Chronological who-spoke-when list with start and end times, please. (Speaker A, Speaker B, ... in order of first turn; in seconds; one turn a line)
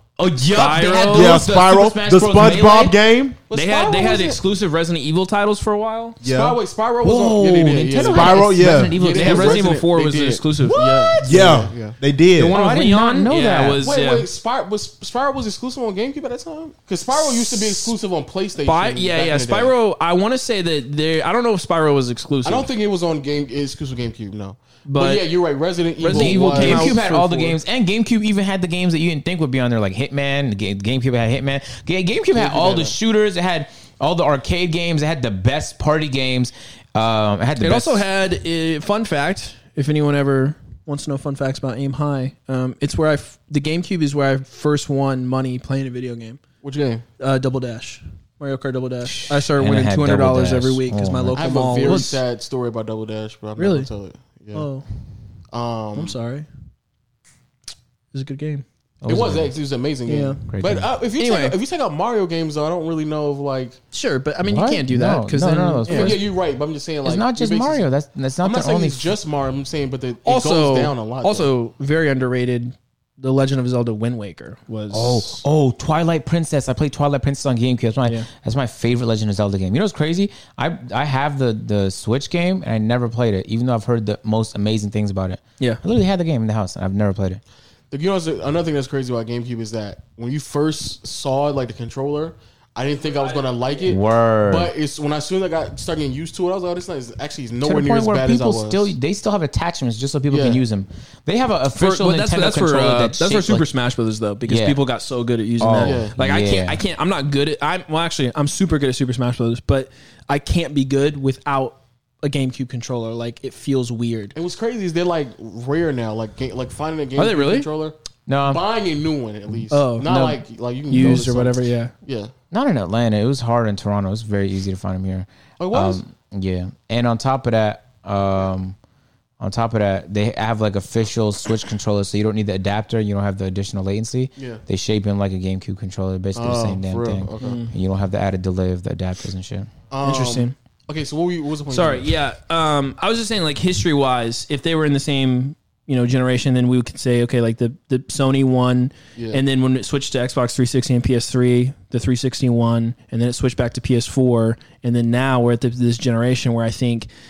Speaker A: 0.2-3.0
Speaker B: 0.5-1.4
Speaker C: 1.1-3.4
Speaker D: 3.5-4.4
Speaker B: 3.5-6.2
Speaker C: 6.2-6.6
Speaker D: 6.2-12.0
Speaker A: 7.0-9.7
Speaker C: 8.0-8.9
Speaker B: 9.1-11.0
Speaker A: 10.7-11.3
Speaker C: 11.2-12.6
Speaker B: 12.4-14.3
Speaker A: 12.5-13.8
Speaker D: 13.8-19.7
Speaker B: 17.1-17.9
Speaker B: 18.6-22.7
Speaker D: 22.4-27.0
Speaker B: 24.9-25.2
Speaker B: 26.0-27.6
Speaker A: 26.1-38.0
Speaker D: 32.3-33.0
Speaker B: 37.6-46.4
Speaker D: 46.6-47.0
Speaker B: 47.2-52.2
Speaker A: 49.1-52.1
Speaker D: 51.3-54.7
Speaker B: 53.6-53.9
Speaker B: 54.5-54.9
Speaker D: 55.5-56.2
Speaker B: 56.0-56.5
Speaker B: 58.1-58.6
Speaker A: 59.0-59.5
Speaker D: 59.1-63.8
Speaker B: 60.1-60.4
Speaker A: 60.5-60.9
Speaker B: 61.2-61.6
Speaker B: 63.9-66.2
Speaker A: 64.4-66.2
Speaker D: 65.9-67.9
Speaker A: 67.0-69.1
Speaker D: 68.4-71.5
Speaker B: 70.2-75.4
Speaker A: 74.9-87.4
Speaker D: 87.9-98.9
Speaker B: 93.1-93.9
Speaker A: 93.9-94.7
Speaker A: 97.7-103.7
Speaker D: 100.3-100.6
Speaker B: 101.8-114.3
Speaker A: 104.5-104.8
Speaker A: 105.6-106.8
Speaker D: 105.8-106.2
Speaker D: 114.3-122.3
Speaker B: 117.2-117.7
Speaker A: 118.3-118.6
Speaker B: 119.7-120.1
Speaker A: 120.0-120.4
Speaker B: 120.9-121.9
Speaker A: 122.5-128.8
Speaker D: 125.6-126.0
Speaker A: 129.4-139.7
Speaker D: 134.4-134.6
Speaker D: 136.4-137.6
Speaker B: 137.4-137.7
Speaker D: 139.9-142.1
Speaker B: 140.0-140.6
Speaker B: 141.7-157.1
Speaker D: 149.2-149.4